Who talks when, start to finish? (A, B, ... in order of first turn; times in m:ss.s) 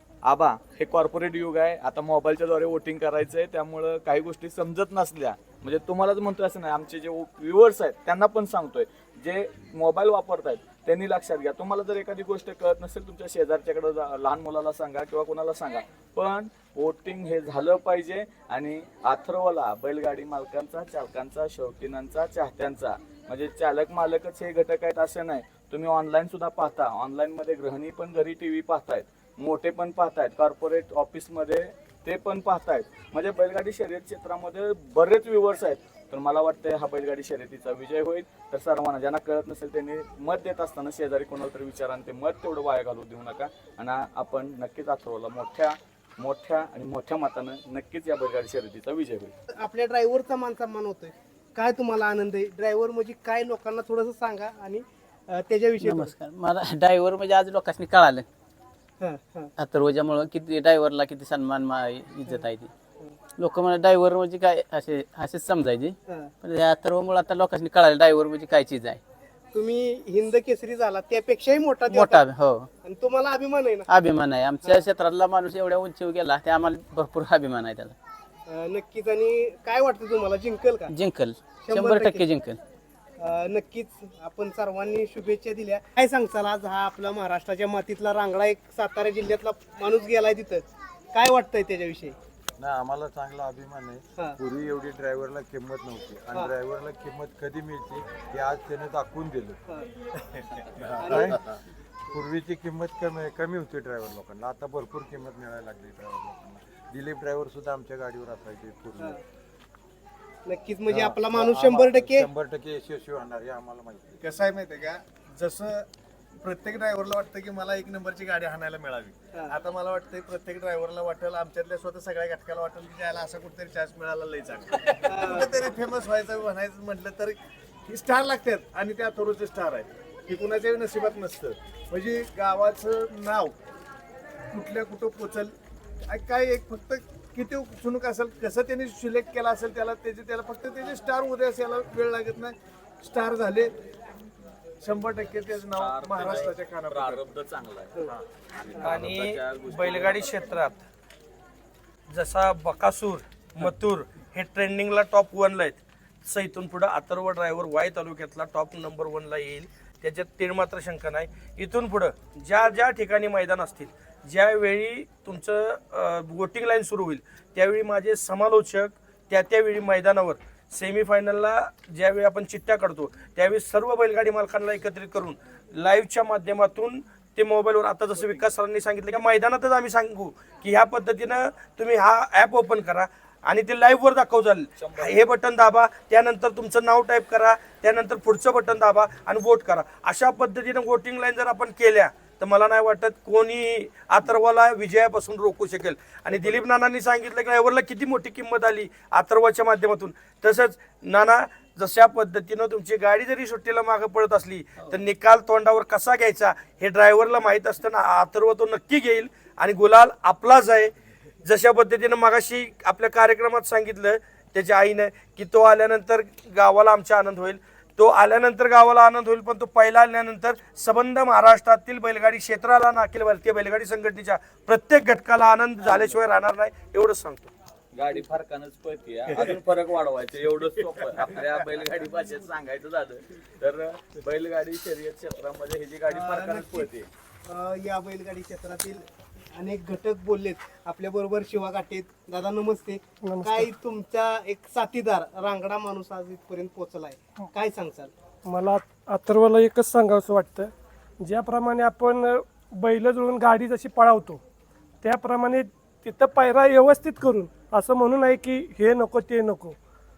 0:00.3-0:49.3 A
0:49.5-0:56.1 B
0:55.8-0:58.3 C
0:59.0-0:59.5 B
0:59.6-1:02.7 C
1:03.4-1:09.0 C
1:06.1-1:06.3 B
1:09.5-1:12.3 B
1:11.9-1:12.7 C
1:12.8-1:13.9 B
1:13.9-1:18.0 C
1:18.5-1:20.9 B
1:20.9-1:22.6 C
1:21.6-1:22.3 B
1:23.2-1:32.2 B
1:32.6-1:39.6 D
1:40.6-1:49.2 D
1:41.0-1:41.4 B
1:50.5-1:52.3 B
1:50.9-1:54.1 D
1:54.2-1:55.9 E
1:56.4-2:13.6 E
2:05.0-2:05.5 B
2:14.5-2:23.7 E
2:24.8-2:27.2 E
2:25.6-2:30.3 A
2:28.8-2:30.8 F
2:32.1-3:30.9 F
2:58.2-2:58.4 A
3:04.8-3:05.3 A
3:31.4-3:47.5 F
3:47.9-3:57.1 A
3:56.1-3:56.9 B
3:57.5-4:08.1 B
4:03.2-4:03.7 G
4:08.4-4:14.4 G
4:15.0-4:19.8 G